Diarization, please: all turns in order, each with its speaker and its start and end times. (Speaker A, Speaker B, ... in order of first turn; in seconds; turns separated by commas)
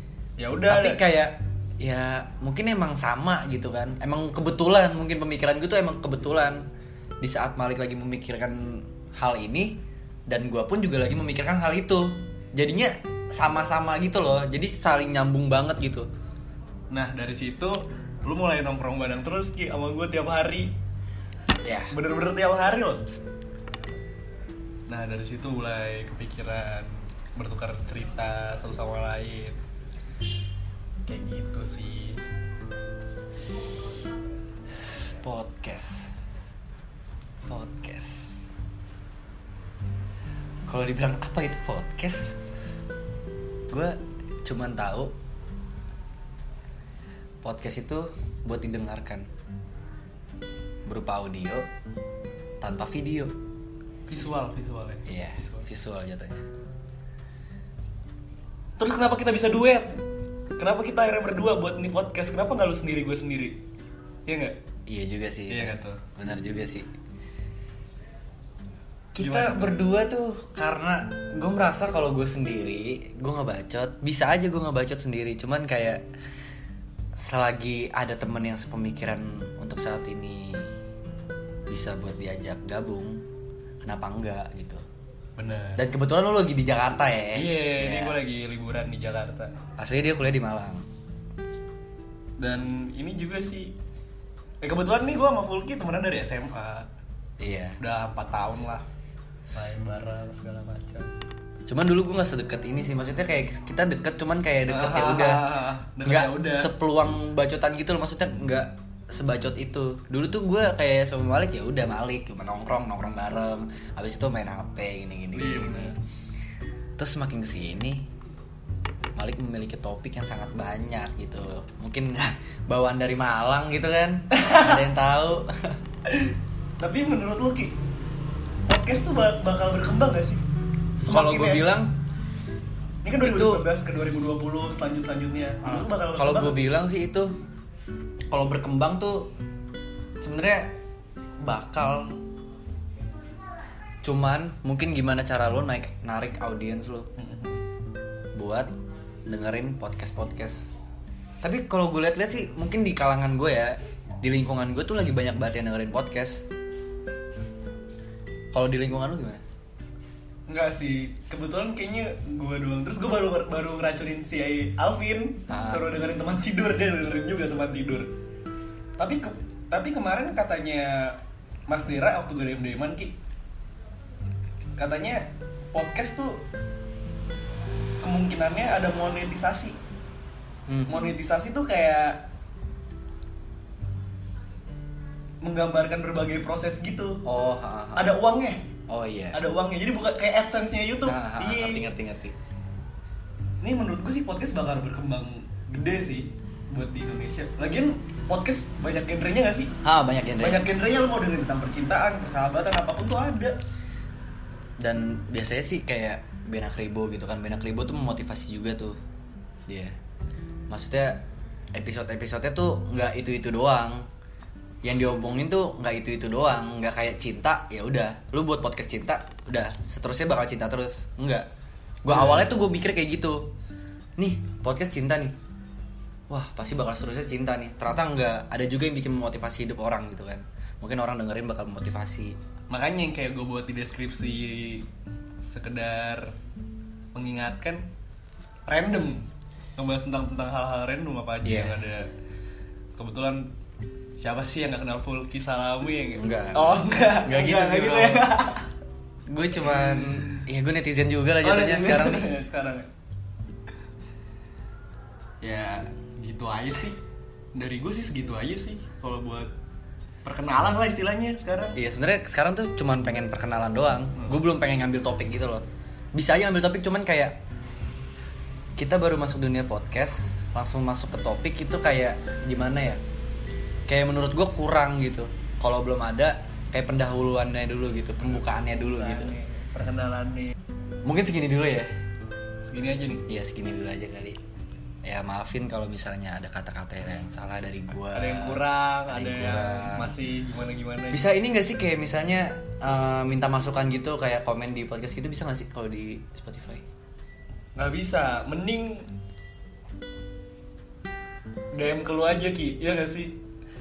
Speaker A: 0.4-1.0, Speaker B: 0.7-6.6, Speaker B: 7.2-16.1, Speaker A: 16.9-20.7, Speaker B: 21.6-21.9, Speaker A: 21.9-23.0, Speaker A: 24.9-29.6, Speaker A: 31.1-32.2, Speaker B: 35.2-36.1, Speaker B: 37.5-38.5, Speaker B: 40.7-42.4, Speaker B: 43.7-45.1, Speaker B: 47.4-49.3, Speaker B: 50.9-51.6, Speaker B: 52.6-53.3, Speaker A: 54.1-55.7, Speaker B: 55.1-56.4, Speaker A: 58.8-59.9, Speaker A: 60.6-63.6, Speaker A: 64.3-64.6, Speaker B: 64.9-66.9, Speaker A: 65.5-66.0, Speaker B: 69.2-76.0, Speaker A: 69.2-69.8, Speaker B: 77.2-80.7, Speaker B: 81.7-83.2, Speaker B: 83.8-84.8, Speaker A: 85.4-85.8, Speaker B: 85.8-88.2, Speaker A: 87.3-89.5, Speaker B: 89.8-90.9, Speaker A: 92.4-93.7, Speaker A: 94.6-96.9, Speaker B: 97.4-97.8, Speaker A: 97.8-98.8, Speaker A: 99.5-101.1, Speaker B: 101.7-105.5, Speaker A: 104.7-106.7, Speaker B: 106.0-115.9, Speaker A: 115.3-116.0, Speaker B: 117.0-118.0, Speaker B: 119.2-125.8, Speaker A: 124.3-124.8, Speaker A: 126.1-127.8, Speaker A: 128.7-130.4, Speaker A: 131.0-131.7, Speaker B: 131.1-131.9, Speaker A: 133.0-136.6, Speaker B: 133.2-133.7, Speaker B: 135.6-137.3, Speaker B: 138.3-139.3, Speaker B: 140.2-140.8, Speaker B: 141.4-142.2, Speaker B: 144.0-147.1, Speaker A: 147.2-147.6, Speaker B: 148.3-148.7, Speaker B: 149.3-150.7, Speaker B: 151.4-156.4, Speaker B: 158.5-159.4, Speaker A: 160.5-168.1, Speaker B: 165.5-165.9, Speaker A: 169.0-171.2, Speaker A: 171.7-173.1, Speaker A: 174.8-176.4, Speaker A: 178.0-179.8, Speaker B: 180.7-181.1, Speaker A: 180.9-182.2, Speaker A: 185.4-187.2, Speaker B: 187.2-188.1, Speaker A: 188.0-188.6, Speaker B: 188.9-189.4, Speaker A: 189.3-191.8, Speaker B: 191.0-192.3, Speaker A: 193.6-199.7, Speaker B: 199.8-200.7, Speaker A: 200.4-203.6, Speaker B: 204.8-209.0, Speaker B: 209.7-209.9, Speaker B: 210.7-211.2, Speaker B: 211.7-214.1, Speaker B: 214.8-221.5, Speaker B: 222.0-223.5, Speaker A: 222.1-222.5, Speaker B: 224.2-225.3, Speaker B: 226.3-232.4, Speaker A: 232.7-234.9, Speaker A: 235.5-236.3, Speaker A: 237.2-237.9, Speaker A: 238.7-239.3, Speaker A: 239.8-242.1, Speaker B: 241.4-241.8, Speaker A: 243.0-243.5, Speaker A: 244.2-248.7, Speaker B: 246.2-248.3, Speaker B: 249.3-252.3, Speaker A: 251.4-252.9, Speaker A: 255.4-257.0, Speaker A: 257.6-259.5, Speaker A: 260.2-261.8, Speaker B: 261.8-265.6, Speaker B: 266.1-267.4, Speaker B: 268.8-273.0, Speaker B: 273.9-279.3, Speaker A: 278.2-280.5, Speaker B: 281.1-281.9, Speaker A: 282.6-283.2, Speaker B: 283.3-284.4, Speaker B: 285.1-290.1, Speaker A: 288.1-291.3, Speaker B: 291.1-296.8, Speaker A: 297.8-299.1, Speaker A: 301.7-303.4